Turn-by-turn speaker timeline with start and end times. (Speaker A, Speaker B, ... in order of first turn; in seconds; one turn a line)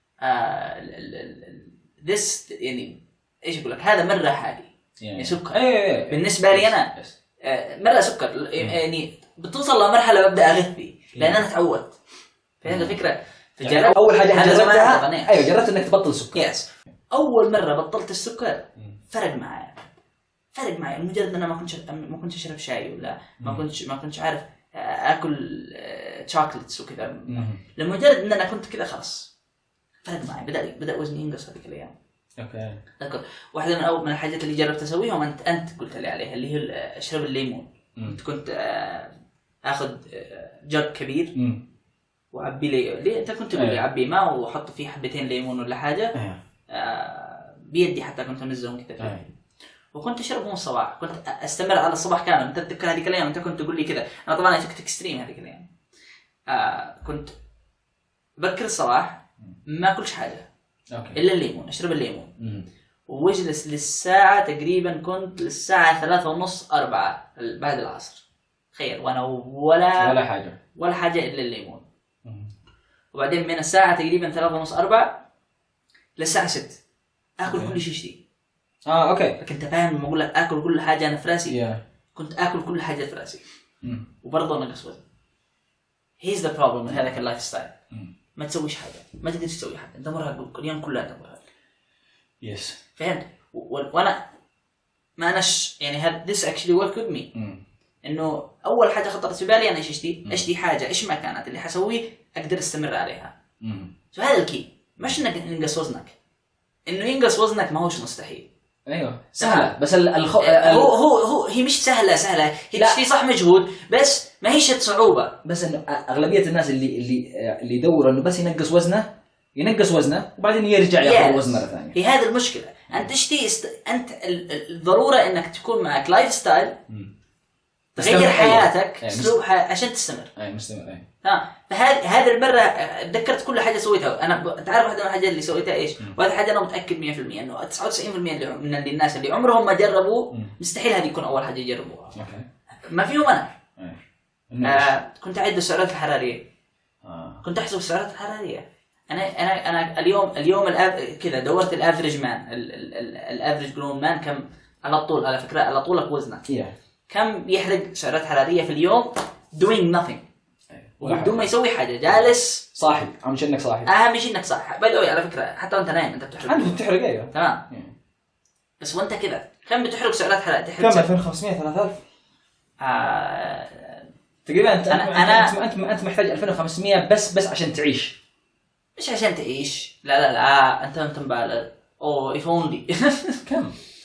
Speaker A: 0.2-11.9
Speaker B: 5.0-7.1
Speaker B: 11.1-11.4
Speaker A: 12.6-15.5
Speaker B: 12.7-13.0
Speaker B: 13.6-16.4
Speaker A: 16.3-19.9
Speaker A: 20.5-29.3
Speaker B: 27.3-27.6
Speaker A: 30.0-31.9
Speaker B: 32.4-32.8
Speaker A: 33.0-39.1
Speaker A: 39.6-41.3
Speaker B: 41.4-41.6
Speaker A: 42.3-46.1
Speaker B: 43.5-43.8
Speaker B: 46.1-46.4
Speaker A: 46.7-49.2
Speaker B: 49.0-49.2
Speaker A: 49.9-55.7
Speaker A: 56.5-57.3
Speaker A: 58.4-60.5
Speaker B: 60.9-61.2
Speaker A: 61.1-62.3
Speaker B: 62.4-62.6
Speaker A: 63.1-70.2
Speaker B: 70.0-70.6
Speaker A: 70.7-71.8
Speaker B: 72.2-72.5
Speaker A: 73.1-75.2
Speaker A: 76.2-76.8
Speaker A: 77.4-78.2
Speaker B: 77.5-77.8
Speaker B: 78.9-79.4
Speaker A: 79.4-81.6
Speaker B: 81.5-81.8
Speaker A: 82.1-83.4
Speaker A: 84.2-85.0
Speaker A: 86.2-87.8
Speaker A: 88.4-91.4
Speaker B: 92.4-92.8
Speaker A: 93.0-94.2
Speaker A: 95.2-97.3
Speaker B: 97.3-97.6
Speaker A: 98.0-103.3
Speaker B: 103.6-103.9
Speaker A: 104.1-106.1
Speaker A: 106.9-108.5
Speaker B: 108.9-110.9
Speaker A: 109.4-109.7
Speaker A: 110.4-115.4
Speaker B: 112.8-113.0
Speaker B: 115.4-122.0
Speaker A: 121.0-126.8
Speaker B: 128.0-129.4
Speaker A: 128.0-130.3
Speaker B: 130.4-131.1
Speaker A: 131.2-142.2
Speaker B: 142.1-142.4
Speaker A: 142.8-143.6
Speaker B: 143.8-144.9
Speaker A: 144.6-146.4
Speaker B: 147.0-147.4
Speaker A: 147.4-156.4
Speaker B: 156.5-156.7
Speaker A: 157.1-160.2
Speaker B: 160.7-161.5
Speaker A: 161.0-162.6
Speaker B: 162.7-163.9
Speaker A: 163.9-167.6
Speaker B: 166.4-167.9
Speaker A: 168.8-171.1
Speaker B: 170.8-172.0
Speaker A: 172.8-174.1
Speaker B: 174.4-178.2
Speaker A: 174.9-175.5
Speaker A: 178.9-183.4
Speaker B: 183.4-183.8